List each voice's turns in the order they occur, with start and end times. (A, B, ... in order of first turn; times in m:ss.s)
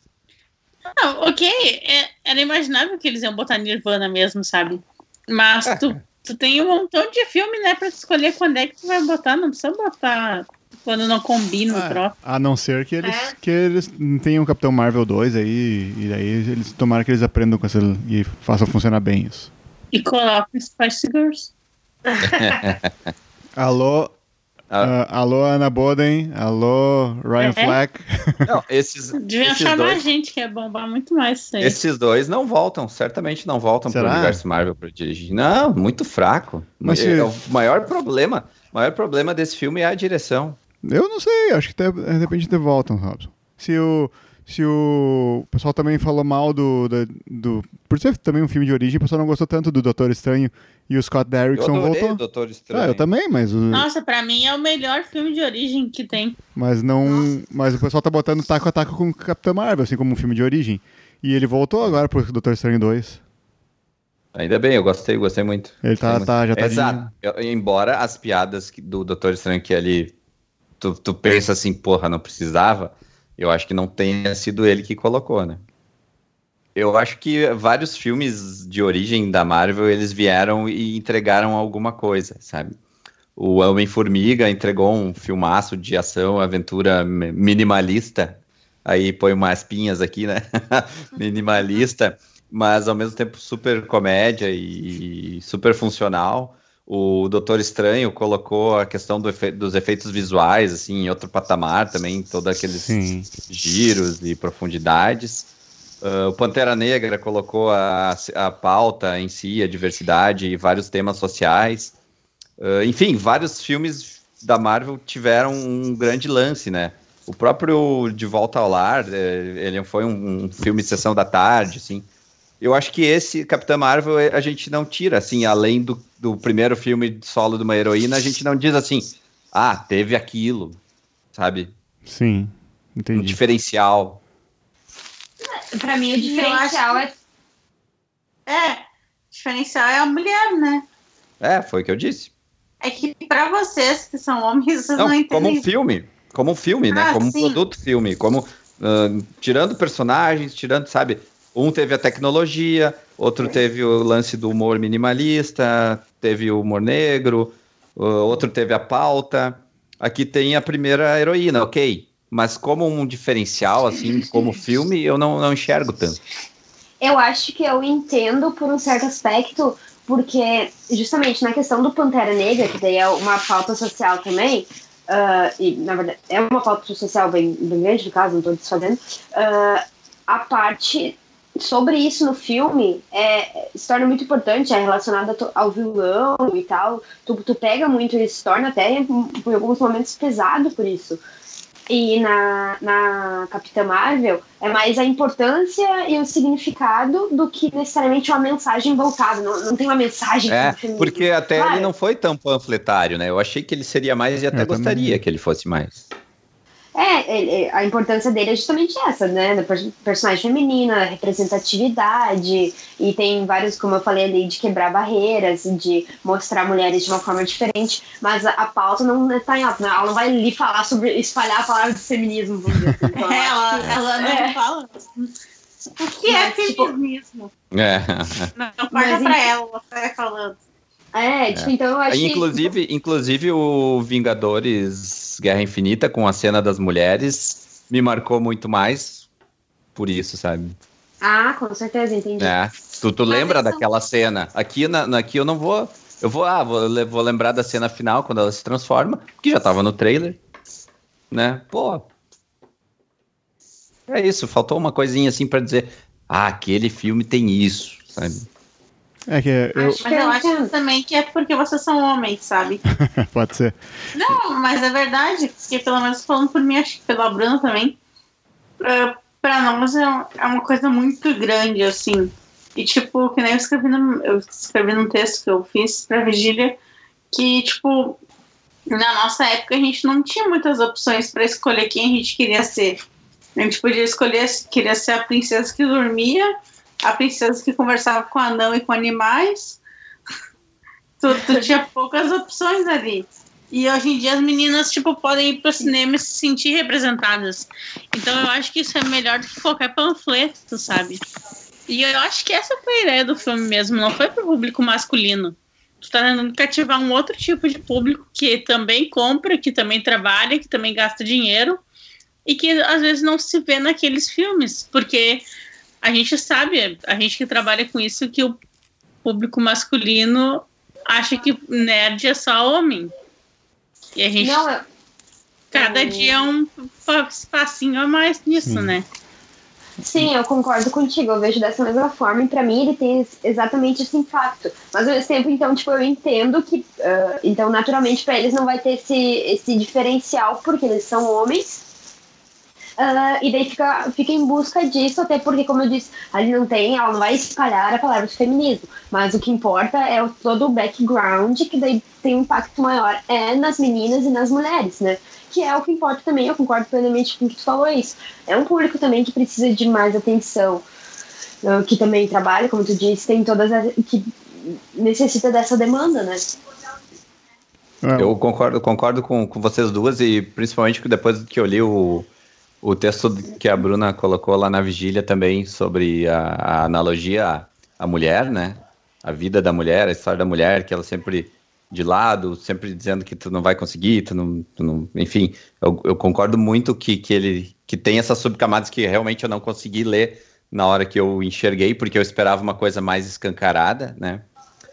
0:00.9-0:12.1 A
0:05.6-0:06.0 B
0:11.7-0:19.5 C
0:13.0-0:13.3 A
0:19.9-0:21.5 A
0:22.2-0:23.1 B
0:22.3-0:22.6 A
0:23.6-0:24.1 C
0:24.8-0:28.5 C
0:27.4-0:27.8 A
0:28.4-0:30.0 B
0:29.2-0:31.8 A
0:31.6-0:40.6 B
0:33.9-0:34.4 C
0:36.8-0:37.3 C
0:40.8-0:52.2 C
0:51.5-0:53.0 B
0:52.7-0:53.8 C
0:53.7-0:56.4 A
0:56.6-1:03.2 C
1:04.3-1:10.1 B
1:05.8-1:07.1 C
1:10.8-1:15.6 B
1:16.7-1:22.8 B
1:23.4-1:42.9 B
1:42.8-1:43.3 C
1:43.4-1:45.5 B
1:46.0-1:51.9 B
1:52.6-2:02.0 B
2:02.6-2:10.8 B
2:11.3-2:11.7 B
2:12.0-2:13.4 C
2:13.1-2:14.2 B
2:15.4-2:17.1 D
2:16.2-2:17.0 A
2:18.5-2:20.8 A
2:21.4-2:22.3 B
2:22.8-2:25.6 A
2:25.0-2:46.2 B
2:26.9-2:27.6 A
2:47.0-3:11.2 D
3:11.9-3:21.9 D
3:20.5-3:26.0 B
3:24.5-3:25.2 C
3:26.9-3:44.6 D
3:43.1-3:45.3 A
3:46.0-3:47.5 A
3:46.2-3:46.9 D
3:47.7-3:48.5 B
3:48.6-3:50.6 A
3:48.9-3:49.5 D
3:51.1-3:52.6 D
3:51.5-3:59.2 B
3:59.9-4:00.8 B
4:01.2-4:02.5 D
4:02.4-4:10.4 B
4:03.3-4:03.8 D
4:11.3-4:12.0 B
4:14.1-4:18.4 B
4:19.3-4:20.0 C
4:19.8-4:20.7 D
4:20.0-4:22.8 A
4:22.9-4:24.4 C
4:24.1-4:28.0 A
4:28.8-4:36.8 A
4:37.3-4:38.2 A
4:38.9-4:43.0 A
4:43.6-4:49.8 A
4:51.2-5:01.2 A
5:01.9-5:11.8 A
5:12.4-5:15.4 A
5:16.0-5:18.6 A
5:19.2-5:23.1 A
5:24.2-5:24.6 A
5:24.4-5:24.8 D
5:25.7-5:26.3 D
5:25.7-5:29.0 A
5:28.5-5:28.9 C
5:30.0-5:41.8 D
5:43.0-6:00.8 D
6:01.6-6:06.4 D
6:08.0-6:08.3 C
6:08.1-6:12.3 B
6:12.8-6:34.4 B